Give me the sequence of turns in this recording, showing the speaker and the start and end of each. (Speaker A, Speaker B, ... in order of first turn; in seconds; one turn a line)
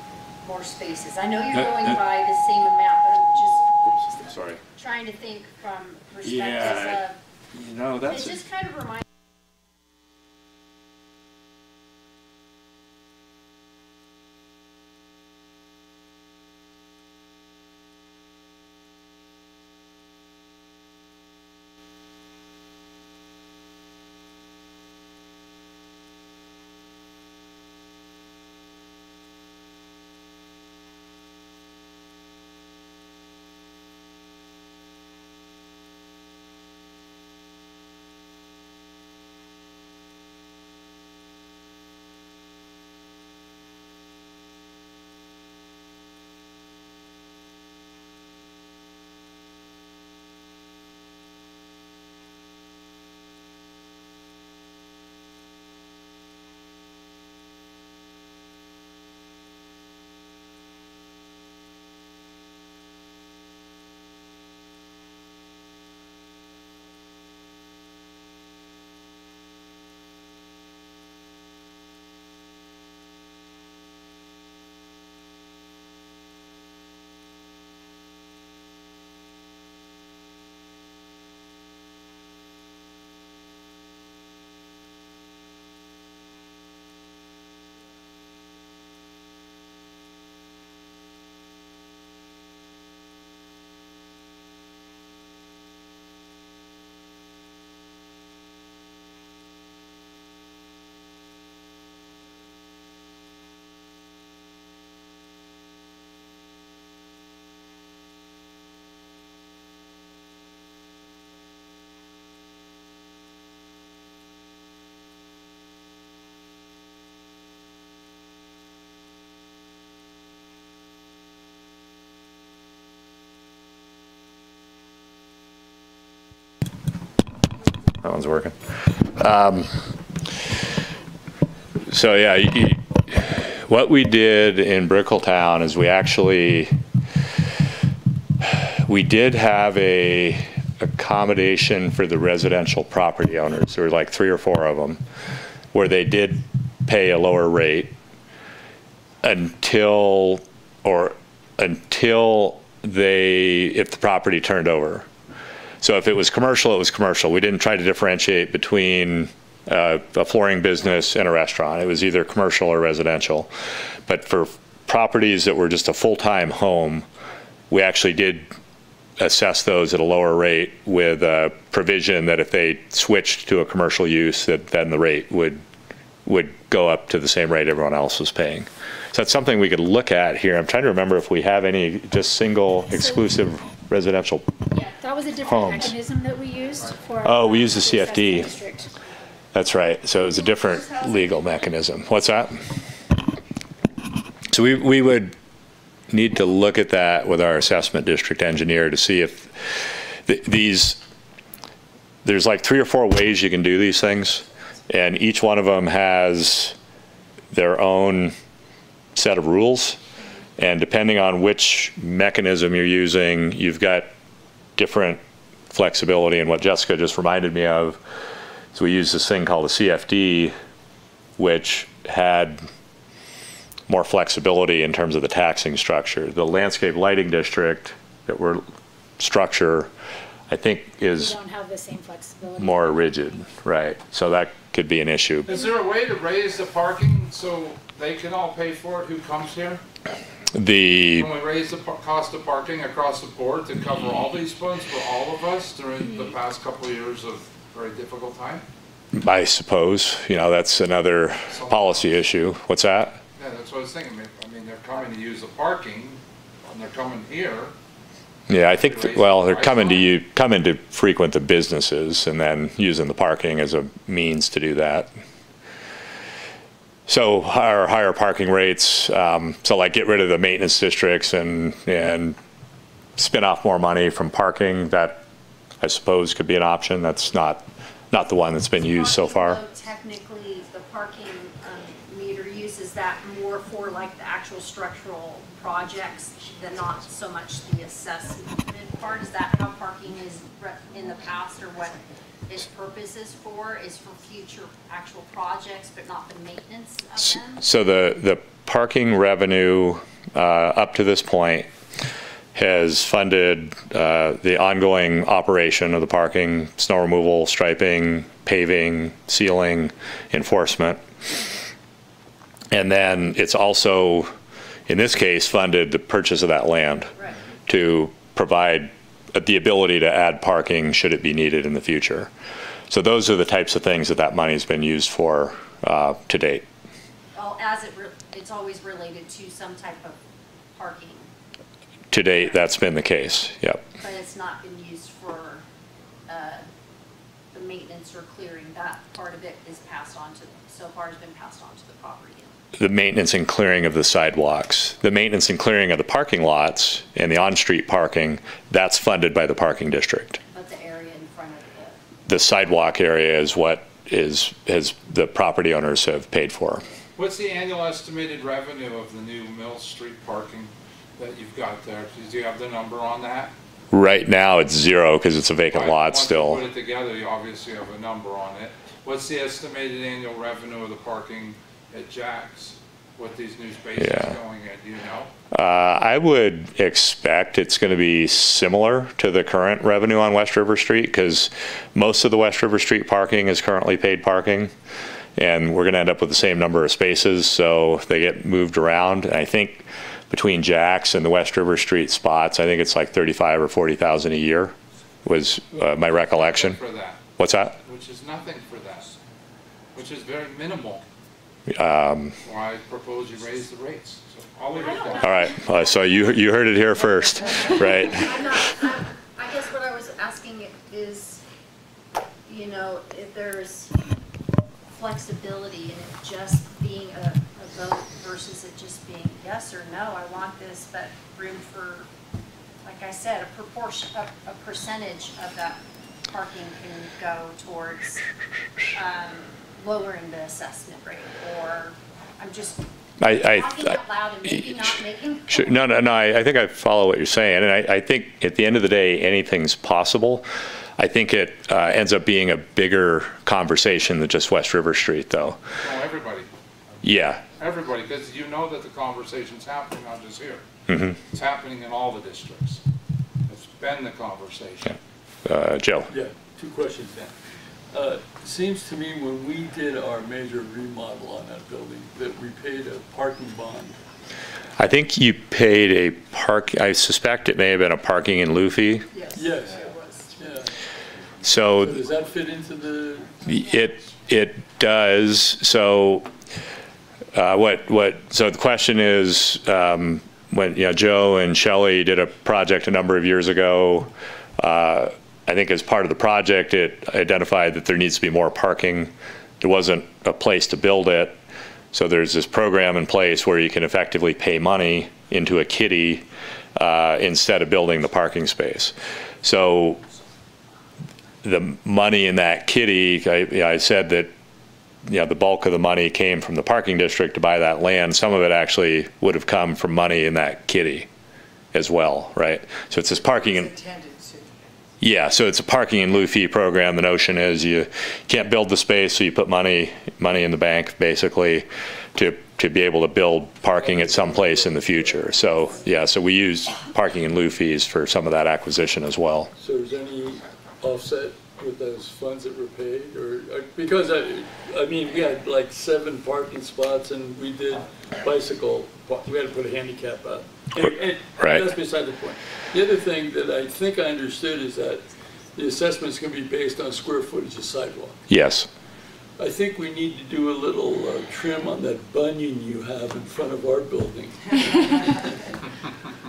Speaker A: 0.4-7.2
Speaker B: 1.5-1.9
Speaker B: 4.2-4.6
Speaker B: 6.2-8.3
Speaker A: 8.1-9.0
Speaker B: 128.0-129.8
Speaker B: 131.9-136.7
Speaker B: 138.4-145.0
Speaker B: 145.7-147.9
Speaker B: 149.2-155.1
Speaker B: 155.8-163.5
Speaker B: 164.1-167.1
Speaker B: 167.7-168.5
Speaker B: 169.2-175.6
Speaker B: 176.2-184.4
Speaker C: 184.8-188.9
Speaker B: 185.4-185.9
Speaker B: 187.2-188.5
Speaker B: 189.5-192.6
Speaker A: 190.8-191.4
Speaker B: 194.5-195.3
Speaker B: 196.1-201.0
Speaker B: 202.2-206.8
Speaker B: 207.5-208.3
Speaker B: 209.2-210.0
Speaker B: 210.6-214.1
Speaker B: 214.8-215.2
Speaker B: 215.7-218.0
Speaker B: 218.7-220.5
Speaker B: 221.4-222.6
Speaker B: 223.9-228.6
Speaker B: 229.2-229.9
Speaker B: 230.5-231.3
Speaker C: 231.1-233.1
Speaker B: 232.6-235.5
Speaker D: 235.5-239.8
Speaker B: 240.5-241.3
Speaker D: 241.2-248.6
Speaker B: 249.1-253.2
Speaker D: 251.5-252.1
Speaker D: 253.3-257.7
Speaker B: 258.5-265.1
Speaker D: 258.6-260.1
Speaker B: 267.1-272.4
Speaker B: 273.2-275.2
Speaker B: 275.8-279.6
Speaker A: 278.8-297.6
Speaker B: 297.2-301.7
Speaker B: 302.5-311.0
Speaker B: 312.7-314.3
Speaker B: 314.9-317.1
Speaker B: 317.7-322.3
Speaker B: 322.9-326.6
Speaker A: 327.3-330.2
Speaker A: 330.7-331.3
Speaker B: 332.1-333.8
Speaker A: 334.0-335.6
Speaker A: 336.3-336.6
Speaker A: 337.5-342.6
Speaker B: 342.8-350.4
Speaker A: 350.5-352.0
Speaker B: 352.3-356.8
Speaker D: 357.1-363.5
Speaker B: 363.9-366.6
Speaker D: 365.7-375.3
Speaker B: 374.0-374.3
Speaker B: 375.5-384.7
Speaker B: 385.4-396.8
Speaker D: 396.3-397.3
Speaker B: 397.4-397.8
Speaker D: 397.8-399.1
Speaker D: 399.9-401.0
Speaker B: 401.7-402.3
Speaker D: 402.4-405.6
Speaker A: 404.8-406.2
Speaker B: 405.2-408.4
Speaker A: 407.4-411.4
Speaker A: 412.5-414.0
Speaker A: 414.9-422.1
Speaker A: 422.8-428.2
Speaker A: 428.9-435.8
Speaker B: 433.2-433.9
Speaker B: 434.5-434.9
Speaker B: 435.5-440.5
Speaker B: 441.0-445.6
Speaker D: 445.8-446.5
Speaker B: 447.0-447.4
Speaker D: 447.6-450.6
Speaker B: 450.9-451.2
Speaker D: 451.3-452.8
Speaker D: 453.5-455.0
Speaker B: 455.4-456.1
Speaker E: 456.1-457.3
Speaker E: 457.9-464.0
Speaker B: 464.8-469.1
Speaker A: 469.1-470.3
Speaker E: 469.3-469.8
Speaker E: 470.4-470.7
Speaker B: 471.4-472.0
Speaker E: 471.7-473.4
Speaker B: 473.4-476.3
Speaker B: 477.3-491.4
Speaker B: 491.9-496.2
Speaker B: 496.8-500.0
Speaker B: 501.4-504.3
Speaker B: 505.1-511.1
Speaker B: 511.7-513.8
Speaker B: 515.0-529.5
Speaker E: 523.8-525.0
Speaker E: 529.6-545.0
Speaker B: 540.8-541.7
Speaker E: 545.5-548.2
Speaker B: 548.3-548.7
Speaker E: 549.4-555.1